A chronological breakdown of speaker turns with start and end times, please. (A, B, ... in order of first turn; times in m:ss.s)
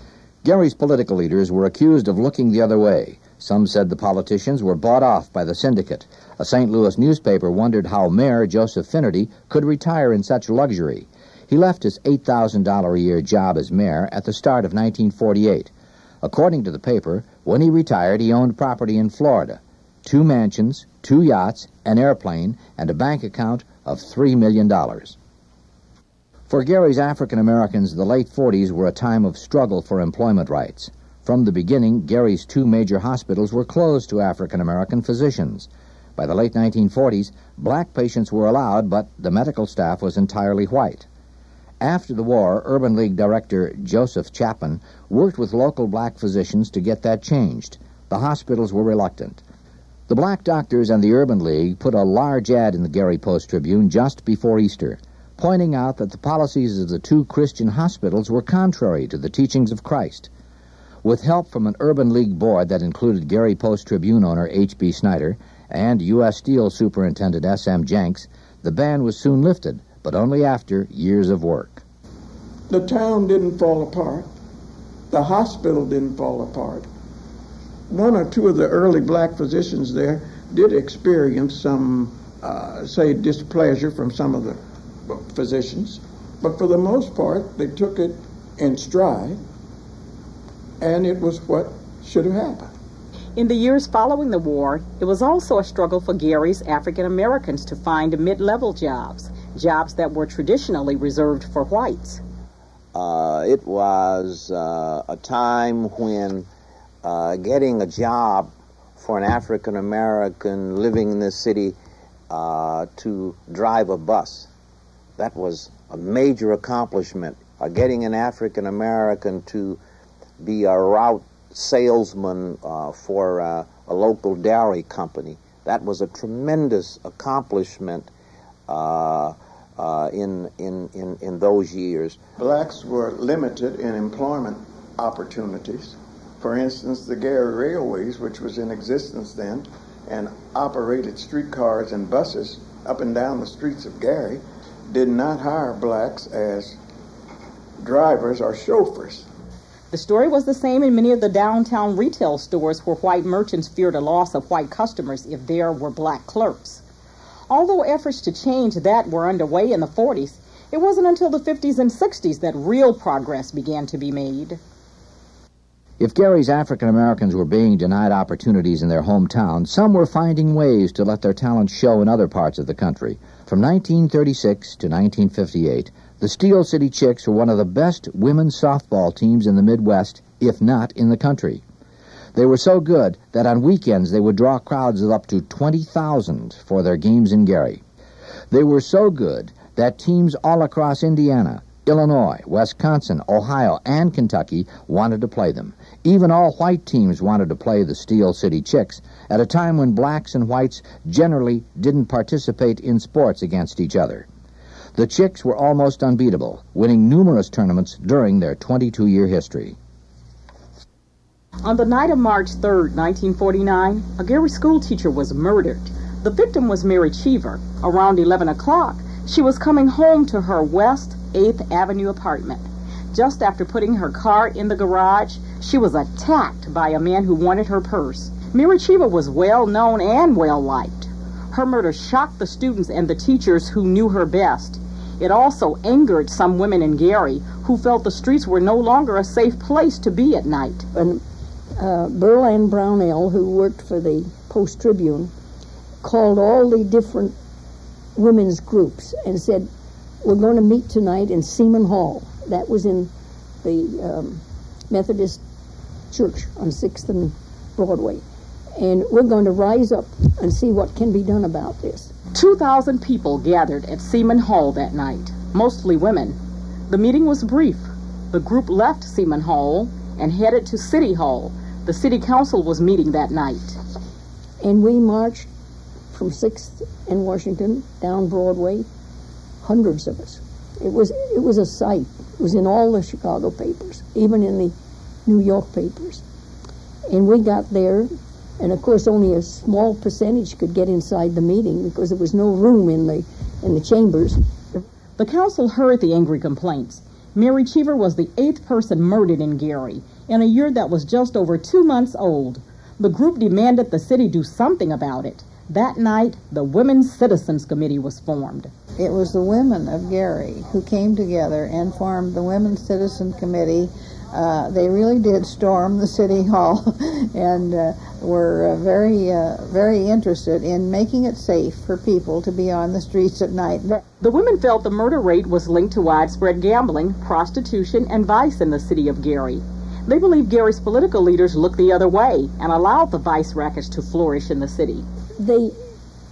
0:00.4-0:15.7 A
0:16.2-0:25.2 A
0:26.5-0:41.1 A
0:41.8-0:49.4 A
0:50.1-1:00.3 A
1:01.0-1:11.8 A
1:12.7-1:14.3 B
1:15.1-1:16.9 B
1:17.9-1:29.4 B
1:30.8-1:32.7 B
1:33.4-1:42.2 C
1:42.9-1:46.5 D
1:47.0-1:51.8 D
1:52.3-1:54.5 D
1:55.2-1:59.8 D
2:00.4-2:08.1 D
2:08.7-2:12.2 D
2:12.4-2:26.8 B
2:27.8-2:29.3 B
2:29.9-2:36.8 C
2:37.5-2:44.6 C
2:46.0-3:01.6 A
3:02.3-3:07.8 A
3:08.5-3:24.3 A
3:24.9-3:29.8 A
3:31.6-4:00.8 C
4:00.9-4:01.2 E
4:01.8-4:05.3 E
4:06.0-4:07.3 E
4:08.2-4:09.7 E
4:10.2-4:13.1 E
4:13.6-4:15.4 E
4:16.1-4:18.2 E
4:18.8-4:22.1 E
4:22.3-4:26.4 C
4:26.9-4:33.8 C
4:34.6-4:35.5 E
4:36.1-4:38.9 E
4:39.6-4:46.2 E
4:47.1-4:54.4 E
4:55.2-5:08.7 C
5:09.0-5:24.0 F
5:24.2-5:35.0 C
5:35.4-5:35.8 E